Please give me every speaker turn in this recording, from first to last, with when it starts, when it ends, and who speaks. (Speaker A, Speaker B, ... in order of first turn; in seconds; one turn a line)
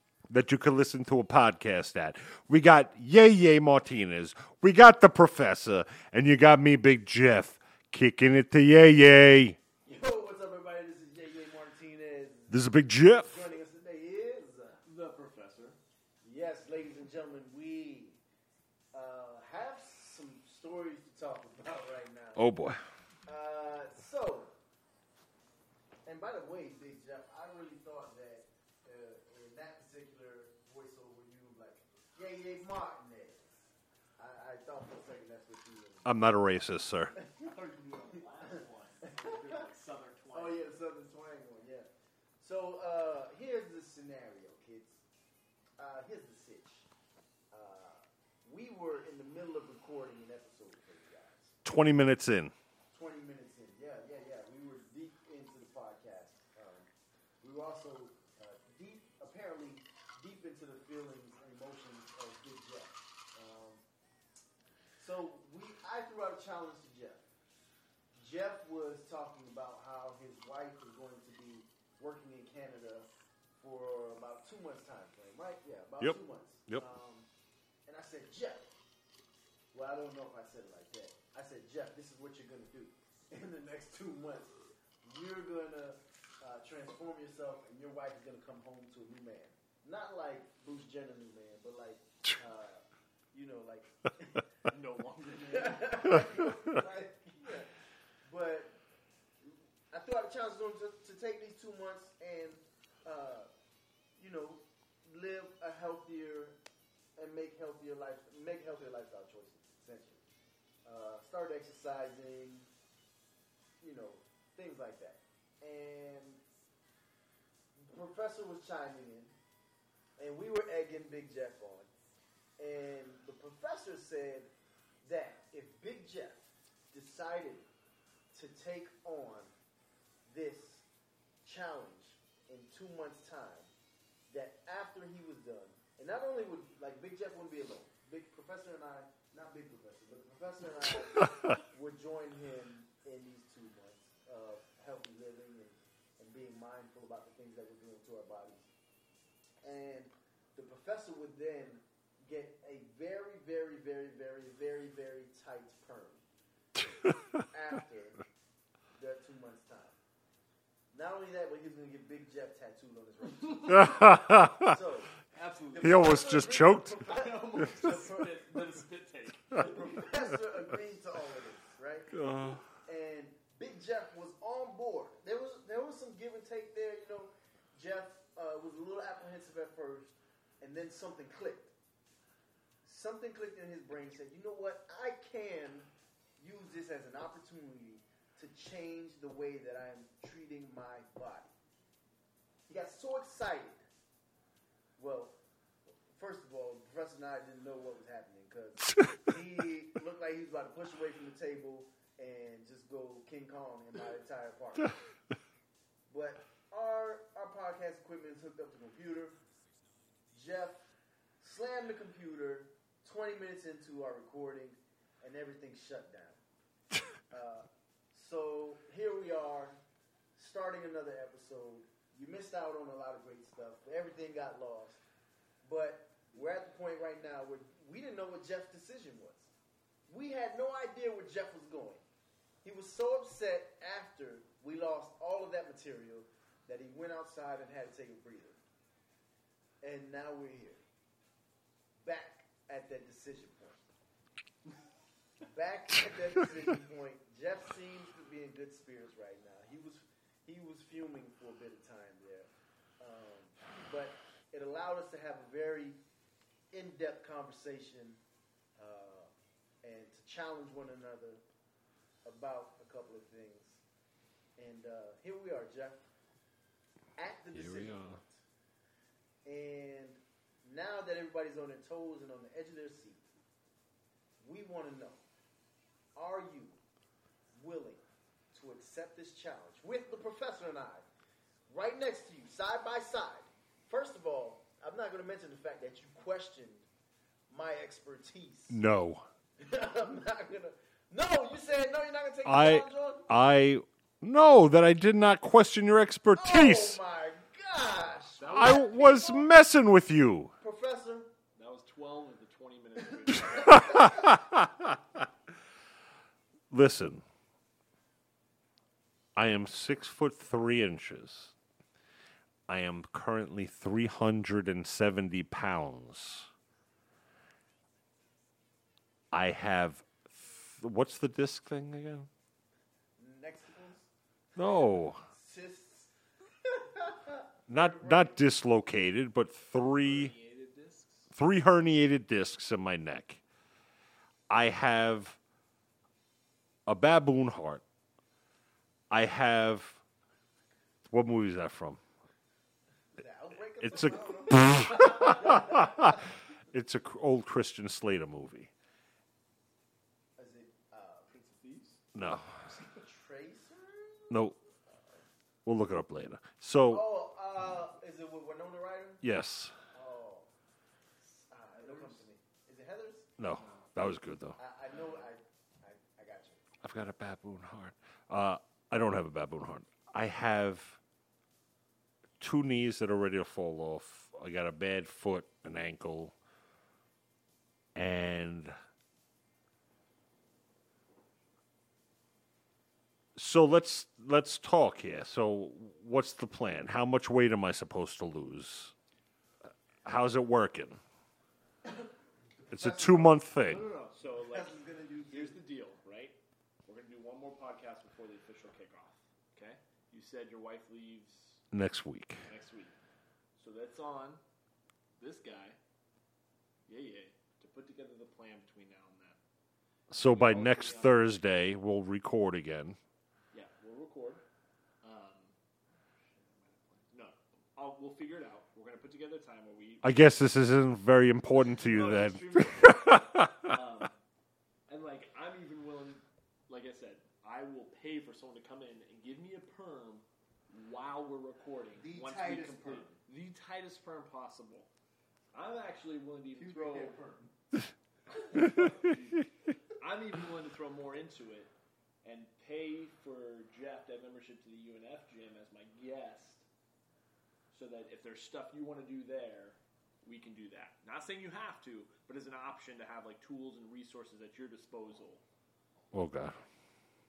Speaker A: 0.3-9.6
Speaker B: 9.9-14.8
Speaker A: 12.5-13.5
Speaker C: 14.8-15.8
Speaker B: 16.2-18.2
Speaker B: 18.9-22.5
Speaker A: 22.4-22.8
Speaker B: 23.3-24.5
Speaker B: 26.1-36.3
Speaker A: 36.1-37.2
Speaker B: 37.1-37.5
Speaker C: 37.4-40.6
Speaker B: 39.0-39.7
Speaker B: 40.3-41.9
Speaker B: 42.4-45.0
Speaker B: 45.8-46.9
Speaker B: 47.5-51.6
Speaker A: 51.6-52.5
Speaker B: 52.9-56.9
Speaker B: 57.4-63.8
Speaker B: 65.0-67.2
Speaker B: 68.2-73.1
Speaker B: 73.6-77.3
Speaker A: 76.0-76.8
Speaker B: 77.9-78.7
Speaker B: 79.7-94.4
Speaker C: 94.7-96.3
Speaker B: 95.2-97.7
Speaker B: 98.2-98.8
Speaker B: 99.5-103.5
Speaker B: 104.2-106.6
Speaker B: 107.2-110.2
Speaker B: 110.8-112.7
Speaker B: 113.8-116.4
Speaker B: 117.8-119.3
Speaker B: 120.2-121.9
Speaker B: 122.6-124.5
Speaker B: 125.0-127.7
Speaker B: 128.3-129.5
Speaker B: 130.3-130.8
Speaker B: 131.4-133.7
Speaker B: 134.3-148.7
Speaker B: 149.6-156.2
Speaker A: 157.1-157.4
Speaker B: 157.4-158.2
Speaker B: 158.9-160.0
Speaker B: 160.9-168.7
Speaker A: 163.7-164.8
Speaker C: 165.3-170.1
Speaker A: 165.8-167.0
Speaker B: 169.5-172.2
Speaker A: 172.1-172.7
Speaker B: 172.8-181.7
Speaker B: 182.8-191.5
Speaker B: 192.7-193.9
Speaker B: 195.0-205.0
Speaker B: 206.1-209.4
Speaker B: 210.3-210.9
Speaker B: 211.4-216.4
Speaker B: 217.3-219.8
Speaker B: 220.4-225.0
Speaker B: 225.6-229.5
Speaker B: 230.1-232.0
Speaker B: 232.6-238.6
Speaker B: 239.8-240.8
Speaker B: 242.0-243.8
Speaker B: 245.4-252.5
Speaker B: 253.0-256.0
Speaker B: 256.7-258.2
Speaker B: 258.8-259.3
Speaker B: 259.8-261.4
Speaker B: 262.2-263.8
Speaker B: 264.6-266.1
Speaker B: 267.2-268.4
Speaker A: 267.5-268.2
Speaker B: 269.4-273.2
Speaker B: 274.4-275.2
Speaker B: 276.2-276.8
Speaker B: 277.6-281.1
Speaker B: 281.7-286.9
Speaker B: 287.5-288.8
Speaker A: 288.7-289.3
Speaker B: 289.6-293.3
Speaker A: 292.4-297.0
Speaker B: 296.3-299.5
Speaker C: 298.4-298.9
Speaker A: 298.5-300.5
Speaker B: 300.6-301.3
Speaker C: 301.6-304.3
Speaker A: 303.7-305.2
Speaker B: 303.8-304.1
Speaker A: 306.7-307.2
Speaker A: 309.4-311.6
Speaker A: 312.7-316.5
Speaker A: 319.3-322.3
Speaker B: 323.2-326.1
Speaker A: 324.6-325.2
Speaker B: 326.6-328.4
Speaker A: 327.7-330.3
Speaker C: 329.9-331.3
Speaker A: 331.3-333.4
Speaker A: 334.5-335.4
Speaker A: 336.9-337.8
Speaker A: 339.1-340.0
Speaker A: 341.1-342.0
Speaker B: 343.1-346.3
Speaker A: 343.8-348.7
Speaker B: 350.4-351.3
Speaker C: 351.3-352.0
Speaker A: 352.1-352.6
Speaker B: 352.6-355.0
Speaker A: 354.3-354.6
Speaker A: 355.6-357.1
Speaker B: 356.9-359.2
Speaker A: 359.2-359.8
Speaker B: 359.9-360.5
Speaker C: 361.4-362.2
Speaker B: 361.5-363.3
Speaker A: 363.4-364.6
Speaker C: 363.6-363.9
Speaker B: 364.6-366.6
Speaker A: 366.8-371.0
Speaker A: 372.4-376.4
Speaker A: 377.9-378.8
Speaker A: 383.4-388.9
Speaker A: 390.1-391.0
Speaker B: 391.9-393.6
Speaker A: 392.7-393.8
Speaker C: 393.6-401.6
Speaker B: 394.3-395.6
Speaker A: 401.7-402.4
Speaker C: 402.5-402.9
Speaker C: 403.6-404.4
Speaker C: 405.2-405.8
Speaker C: 406.9-409.4
Speaker A: 410.1-413.0
Speaker C: 410.1-411.3
Speaker C: 413.5-414.4
Speaker C: 415.0-415.6
Speaker C: 416.1-420.2
Speaker A: 420.0-423.8
Speaker C: 421.6-424.2
Speaker C: 424.9-434.9
Speaker B: 432.0-433.1
Speaker C: 435.5-437.3
Speaker B: 436.5-437.5
Speaker C: 438.3-441.7
Speaker C: 442.2-446.6
Speaker C: 447.7-455.4
Speaker A: 456.1-456.6